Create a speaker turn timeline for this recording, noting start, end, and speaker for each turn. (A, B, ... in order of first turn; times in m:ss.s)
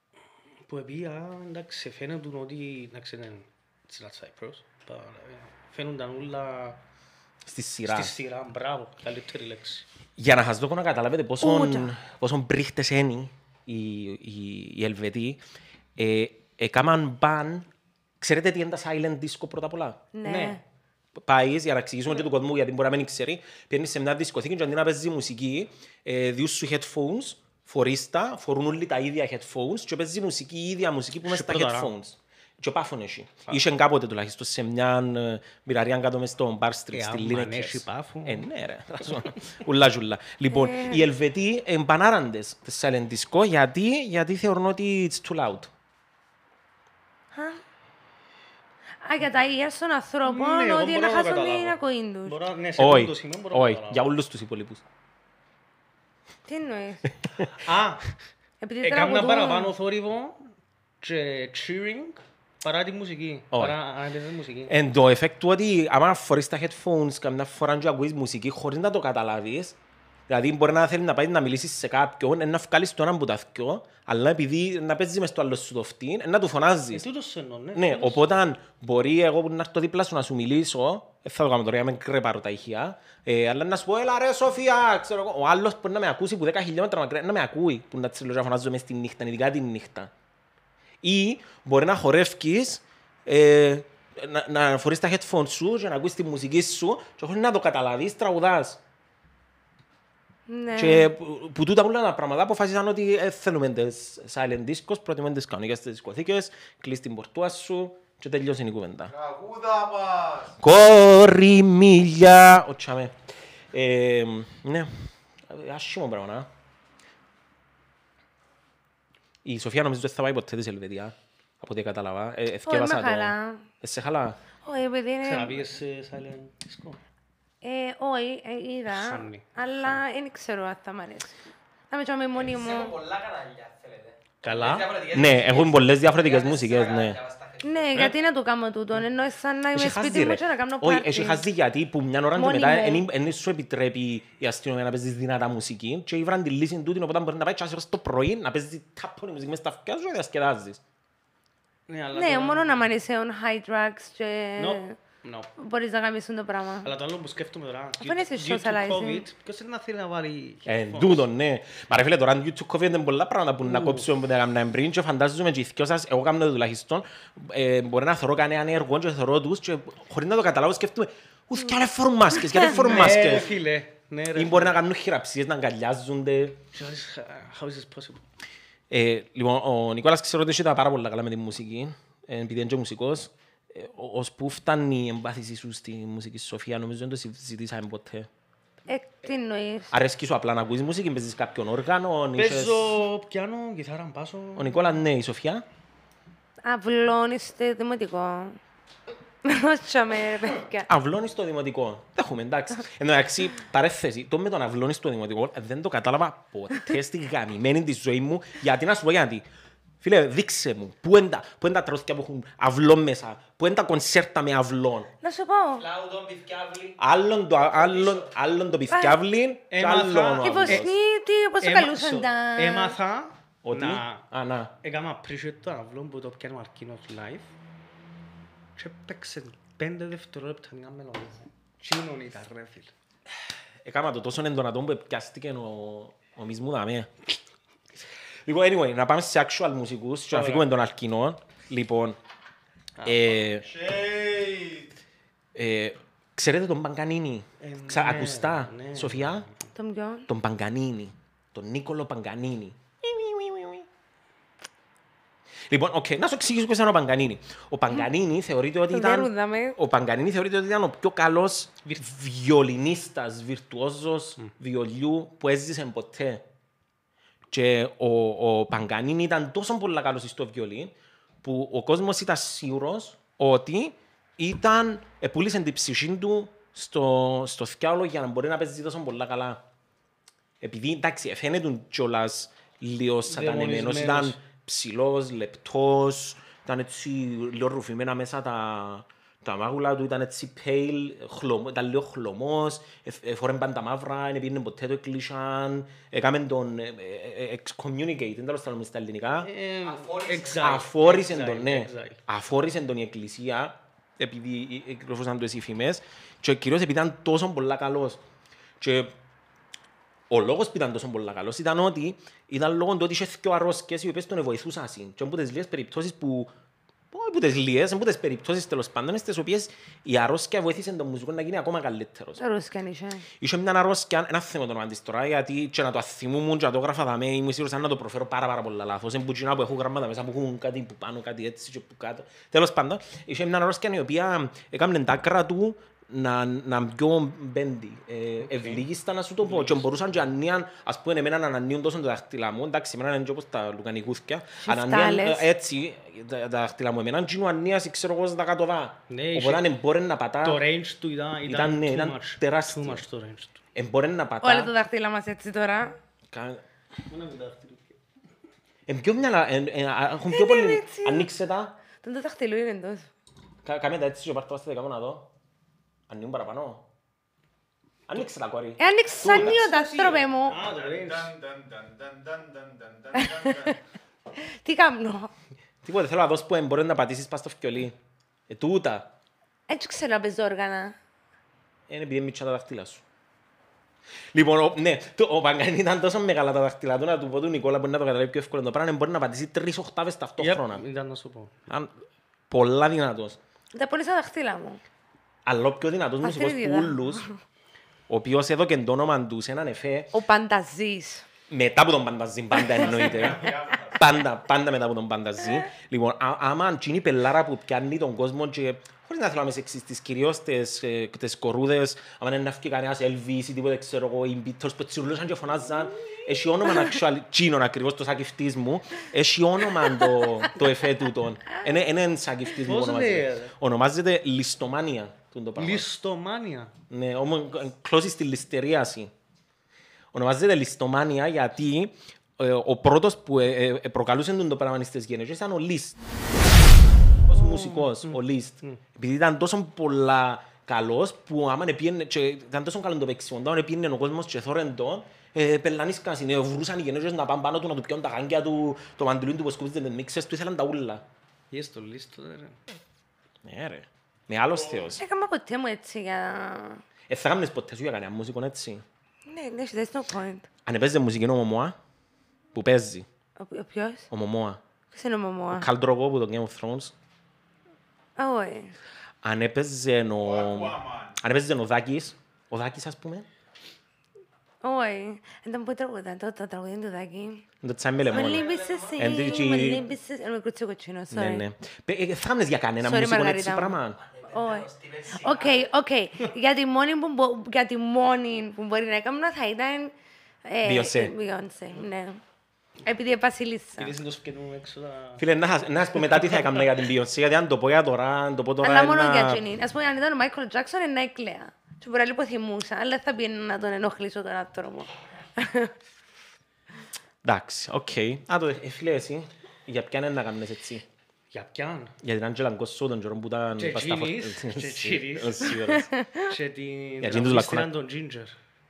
0:00.7-0:06.8 A
0:07.4-0:08.1 B
0:07.8-0:09.9 A
0:10.2-0:15.4 B
0:11.4-0:11.9 C
0:16.0-0:17.7 B
0:18.2-0:20.0 B
0:20.1-0:20.6 C
0:20.2-0:20.6 A
0:21.2-0:45.7 B
0:31.2-0:31.9 A
0:36.9-0:38.5 A
0:40.5-0:41.1 C
0:47.3-0:47.6 C
0:49.0-0:52.4 C
0:50.3-0:54.1 A
0:52.8-0:54.8 B
0:56.5-0:57.1 C
0:57.6-0:58.1 A
0:58.6-0:59.7 C
0:58.8-1:04.8 A
1:04.7-1:09.8 B
1:10.3-1:17.1 B
1:16.9-1:18.2 A
1:17.7-1:30.1 B
1:31.0-1:38.8 B
1:40.5-1:41.1 C
1:40.8-1:49.1 B
1:49.1-1:50.6 D
1:50.6-1:53.2 B
1:53.7-1:54.9 B
1:55.5-1:56.5 B
1:59.4-2:04.4 B
2:02.7-2:03.7 C
2:04.6-2:05.7 C
2:05.2-2:07.0 A
2:07.6-2:11.4 C
2:08.9-2:09.9 A
2:11.9-2:13.0 C
2:12.4-2:18.2 E
2:14.4-2:15.0 A
2:15.1-2:17.2 B
2:17.6-2:21.5 C
2:19.7-2:30.8 B
2:22.4-2:23.0 C
2:31.9-2:32.9 A
2:32.1-2:35.0 C
2:34.6-2:35.5 A
2:35.6-2:36.9 C
2:36.8-2:41.2 A
2:38.0-2:39.3 C
2:40.7-2:53.6 B
2:43.6-2:44.1 A
2:52.6-2:54.8 A
2:54.3-2:56.6 B
2:56.7-2:58.2 A
2:58.9-3:08.3 B
3:08.9-3:09.9 C
3:09.9-3:13.0 B
3:12.4-3:14.9 A
3:14.6-3:15.6 B
3:16.6-3:18.6 C
3:19.4-3:20.9 C
3:20.9-3:29.4 B
3:30.0-3:35.1 B
3:35.2-3:35.9 C
3:35.8-3:38.3 E
3:37.0-3:40.9 B
3:38.9-3:39.2 C
3:39.7-3:40.9 A
3:40.4-3:43.0 C
3:41.6-3:44.3 A
3:43.6-3:44.7 B
3:44.8-3:47.5 A
3:48.8-3:52.9 A
3:53.8-3:57.1 B
3:58.5-4:02.2 B
4:00.3-4:00.7 A
4:03.0-4:03.4 A
4:03.0-4:03.7 B
4:03.8-4:04.9 D
4:03.9-4:04.4 E
4:05.6-4:09.5 B
4:07.6-4:09.7 A
4:09.8-4:10.3 C
4:10.3-4:13.9 B
4:15.7-4:26.4 B
4:18.9-4:19.8 C
4:27.5-4:39.6 B
4:40.6-4:59.5 B
4:43.3-4:44.4 A
4:59.4-5:02.2 A
4:59.8-5:00.9 E
5:00.5-5:08.2 B
5:08.8-5:09.1 B
5:10.3-5:16.5 B
5:17.1-5:22.4 B
5:22.4-5:23.2 C
5:23.4-5:50.6 B
5:38.4-5:38.8 A
5:39.4-5:40.0 A
5:44.6-5:45.5 C
5:49.1-5:49.7 A
5:50.4-5:53.6 A
5:51.4-5:53.0 B
5:53.8-5:54.7 B
5:54.4-5:56.0 C
5:56.3-5:56.6 B
5:57.1-5:58.0 A
5:58.9-6:01.8 B
6:00.3-6:01.3 C
6:02.0-6:03.1 C
6:03.6-6:05.3 B
6:06.1-6:06.8 B
6:08.1-6:09.7 B
6:08.8-6:10.6 C
6:09.3-6:11.4 A
6:10.6-6:11.0 E
6:10.7-6:13.7 D
6:12.7-6:13.7 E
6:13.2-6:13.7 C
6:14.4-6:15.3 C
6:15.8-6:18.0 B
6:18.5-6:19.1 B
6:19.7-6:21.0 C
6:21.9-6:23.0 B
6:24.3-6:30.8 B
6:30.4-6:31.6 A
6:31.7-6:31.9 B
6:32.5-6:33.4 B
6:33.7-6:34.8 C
6:35.5-6:37.3 B
6:36.2-6:37.4 C
6:38.1-6:40.1 B
6:40.1-6:41.3 C
6:41.5-7:05.9 B
6:42.6-6:43.5 C
6:42.8-6:44.0 E
7:02.6-7:03.6 A
7:05.6-7:06.7 A
7:06.9-7:09.1 B
7:10.1-7:16.0 B
7:17.3-7:31.0 B
7:17.9-7:18.8 A
7:31.5-7:32.6 A
7:33.4-7:35.0 B
7:34.9-7:36.8 C
7:37.1-7:38.8 B
7:39.3-7:40.5 C
7:40.6-7:41.8 B
7:42.5-7:43.1 B
7:43.4-7:44.1 C
7:44.1-7:44.6 B
7:44.9-7:45.7 C
7:45.5-7:46.9 B
7:48.2-7:48.8 C
7:49.2-7:53.3 B
7:50.5-7:51.0 E
7:54.6-7:57.4 C
7:57.6-7:59.9 B
7:58.0-7:59.9 E
7:58.1-8:01.4 C
8:01.1-8:04.0 B
8:02.8-8:09.9 C
8:04.0-8:05.7 E
8:10.4-8:12.2 C
8:10.6-8:11.1 B
8:12.8-8:13.9 C
8:13.8-8:15.3 A
8:15.2-8:19.4 B
8:16.0-8:16.6 A
8:18.6-8:25.7 C
8:27.2-8:30.8 B
8:31.3-8:32.0 A
8:32.0-8:35.9 B
8:33.6-8:35.6 A
8:35.6-8:36.3 C
8:36.2-8:38.3 A
8:37.0-8:37.7 B